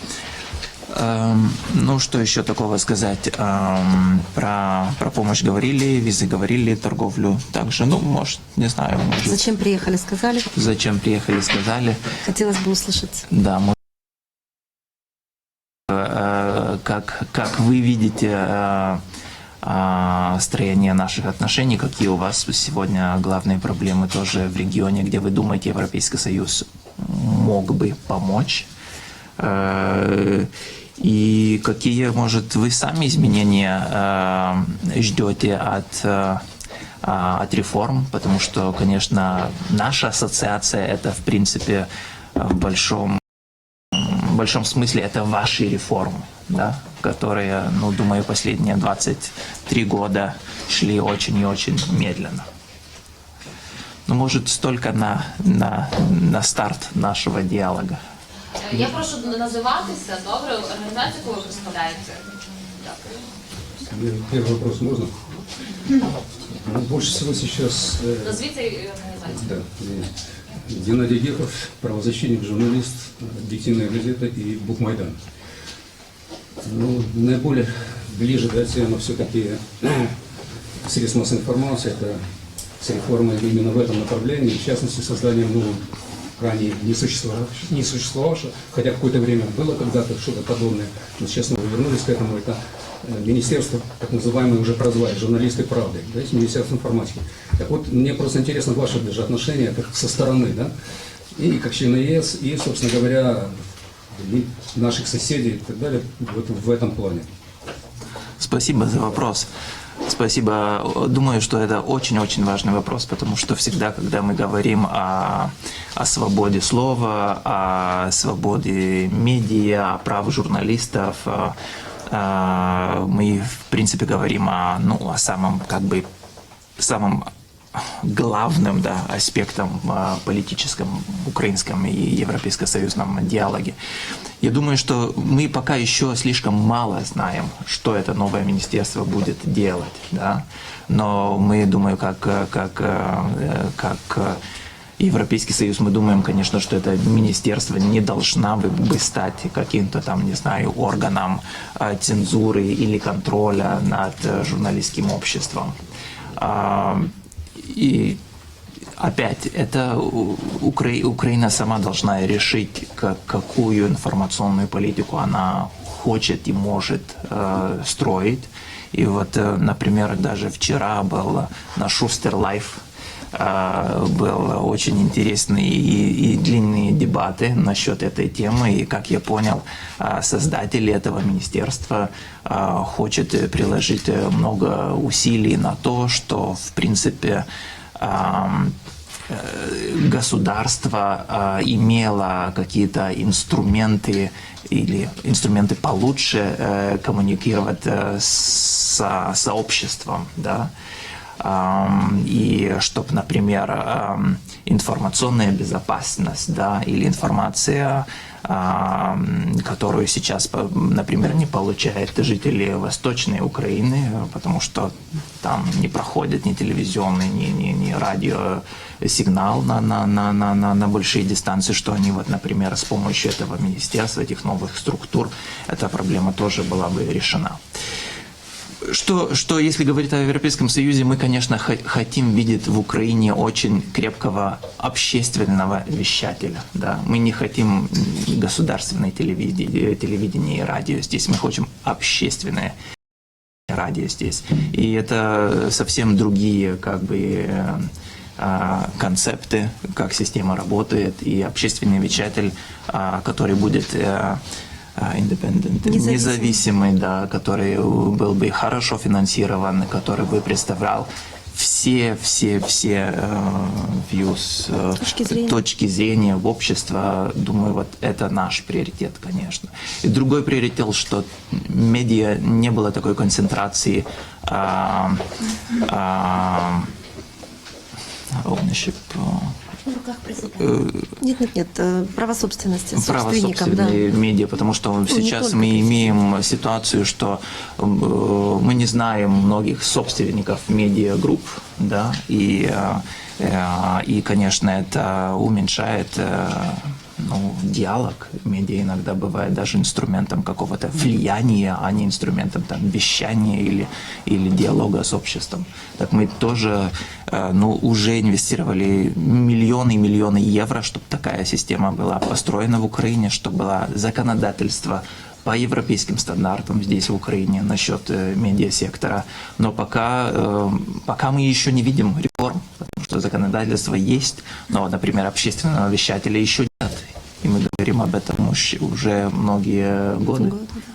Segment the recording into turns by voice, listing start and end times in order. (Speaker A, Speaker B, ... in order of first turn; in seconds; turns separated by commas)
Speaker A: 0.9-9.4, Speaker B: 9.2-10.5, Speaker A: 10.5-12.2, Speaker B: 12.2-13.2, Speaker A: 13.3-13.8, Speaker A: 15.9-19.0, Speaker A: 19.6-28.7, Speaker A: 29.4-36.4, Speaker A: 37.0-43.2, Speaker A: 43.9-52.5, Speaker A: 54.1-58.0, Speaker C: 58.6-63.3, Speaker D: 63.9-65.2, Speaker D: 66.5-68.4, Speaker C: 68.2-69.6, Speaker D: 69.3-70.1, Speaker D: 70.7-75.2, Speaker D: 76.6-80.1, Speaker D: 80.8-82.2, Speaker D: 82.8-85.8, Speaker D: 86.4-100.7, Speaker D: 101.3-103.6, Speaker D: 104.1-107.3, Speaker A: 108.4-109.5, Speaker A: 110.0-121.5, Speaker A: 122.1-126.0, Speaker A: 126.8-133.8, Speaker A: 134.4-144.4, Speaker A: 145.0-155.8, Speaker A: 156.4-158.2, Speaker A: 159.0-172.8, Speaker A: 173.3-187.4, Speaker A: 188.0-188.7, Speaker A: 189.3-200.7, Speaker A: 201.4-227.6, Speaker A: 228.8-242.7, Speaker A: 243.7-254.4, Speaker A: 254.9-276.9, Speaker B: 255.8-256.6, Speaker B: 265.0-265.6, Speaker A: 278.3-279.6, Speaker B: 280.1-280.3, Speaker A: 280.6-281.1, Speaker B: 281.2-284.0, Speaker A: 282.9-330.6, Speaker B: 285.1-286.0, Speaker B: 330.4-330.7